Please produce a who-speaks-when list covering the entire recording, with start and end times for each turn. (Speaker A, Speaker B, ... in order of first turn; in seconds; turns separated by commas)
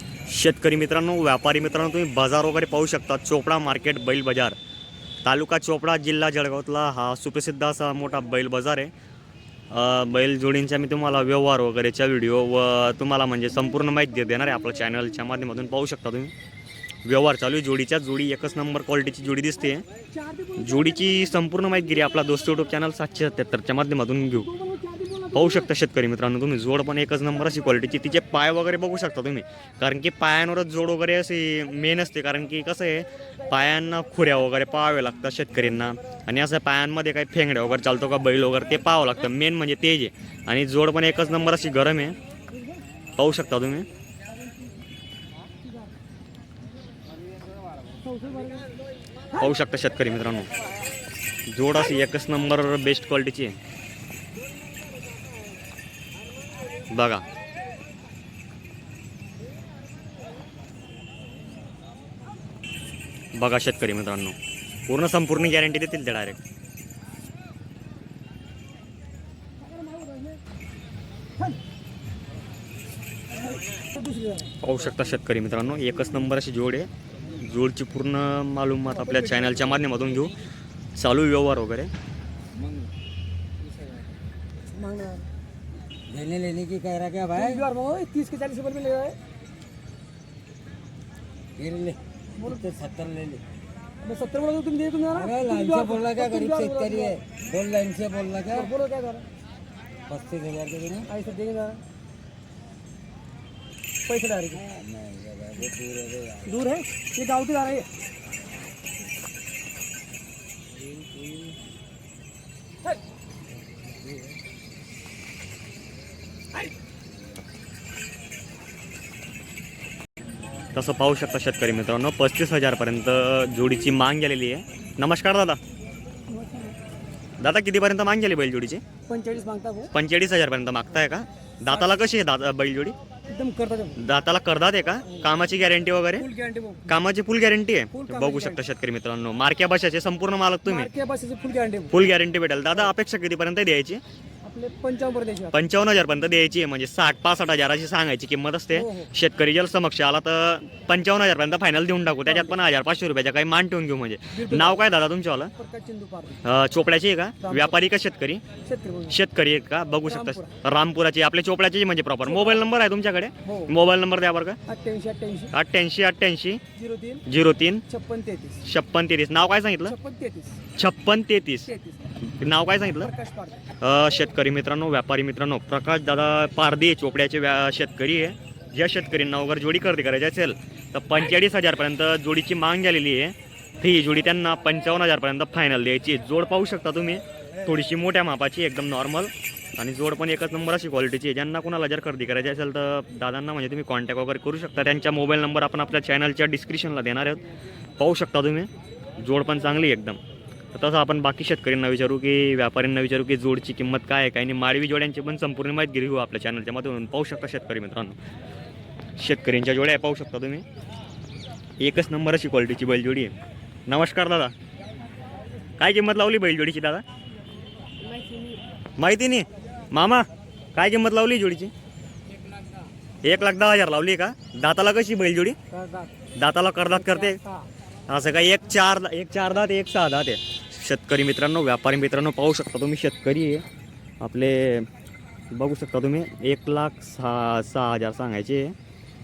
Speaker A: 0.2-4.5, Speaker A: 5.2-8.9, Speaker A: 9.7-16.3, Speaker A: 17.0-19.8, Speaker B: 20.2-20.6, Speaker A: 20.6-24.5, Speaker B: 24.6-25.3, Speaker A: 25.3-42.2, Speaker A: 43.1-43.9, Speaker B: 48.0-48.6, Speaker A: 49.3-50.5, Speaker A: 51.5-53.6, Speaker A: 56.9-57.2, Speaker A: 63.3-66.4, Speaker B: 74.0-74.5, Speaker A: 74.6-80.3, Speaker B: 79.0-80.0, Speaker A: 80.9-81.9, Speaker B: 84.7-85.3, Speaker C: 86.1-87.7, Speaker B: 87.3-89.2, Speaker C: 91.6-93.4, Speaker B: 92.4-92.6, Speaker B: 94.0-97.2, Speaker C: 95.1-98.7, Speaker B: 98.5-99.2, Speaker C: 100.1-101.1, Speaker B: 101.0-101.8, Speaker B: 104.1-104.6, Speaker C: 104.5-106.5, Speaker B: 106.4-107.9, Speaker A: 120.7-125.6, Speaker B: 126.3-126.8, Speaker A: 127.4-128.8, Speaker B: 129.1-129.9, Speaker A: 129.9-132.9, Speaker B: 133.3-134.0, Speaker A: 134.0-136.3, Speaker B: 136.2-136.9, Speaker A: 136.9-140.9, Speaker B: 137.9-138.6, Speaker B: 140.7-141.9, Speaker A: 141.9-144.0, Speaker B: 144.4-145.6, Speaker A: 145.5-155.5, Speaker B: 148.7-149.1, Speaker B: 152.3-152.5, Speaker B: 154.3-154.8, Speaker B: 155.5-156.4, Speaker A: 156.4-158.4, Speaker B: 157.4-157.8, Speaker B: 158.6-159.1, Speaker A: 159.1-164.6, Speaker B: 160.1-160.5, Speaker B: 163.4-163.7, Speaker B: 164.7-165.5, Speaker A: 165.5-166.6, Speaker B: 166.7-167.2, Speaker A: 167.2-167.8, Speaker B: 167.9-168.6, Speaker A: 168.6-169.9, Speaker B: 169.8-170.6, Speaker A: 170.7-171.7, Speaker B: 171.7-172.1, Speaker A: 172.2-173.1, Speaker B: 173.0-173.6, Speaker A: 173.8-197.4, Speaker A: 198.0-200.2, Speaker A: 200.7-208.2, Speaker A: 209.2-210.6, Speaker A: 211.8-213.3, Speaker A: 213.9-214.5, Speaker A: 215.8-217.0, Speaker A: 219.0-221.7, Speaker A: 223.2-225.6, Speaker B: 225.7-226.1, Speaker A: 226.4-227.4, Speaker B: 226.9-227.7, Speaker A: 228.1-233.6, Speaker A: 234.2-234.9, Speaker A: 235.5-238.7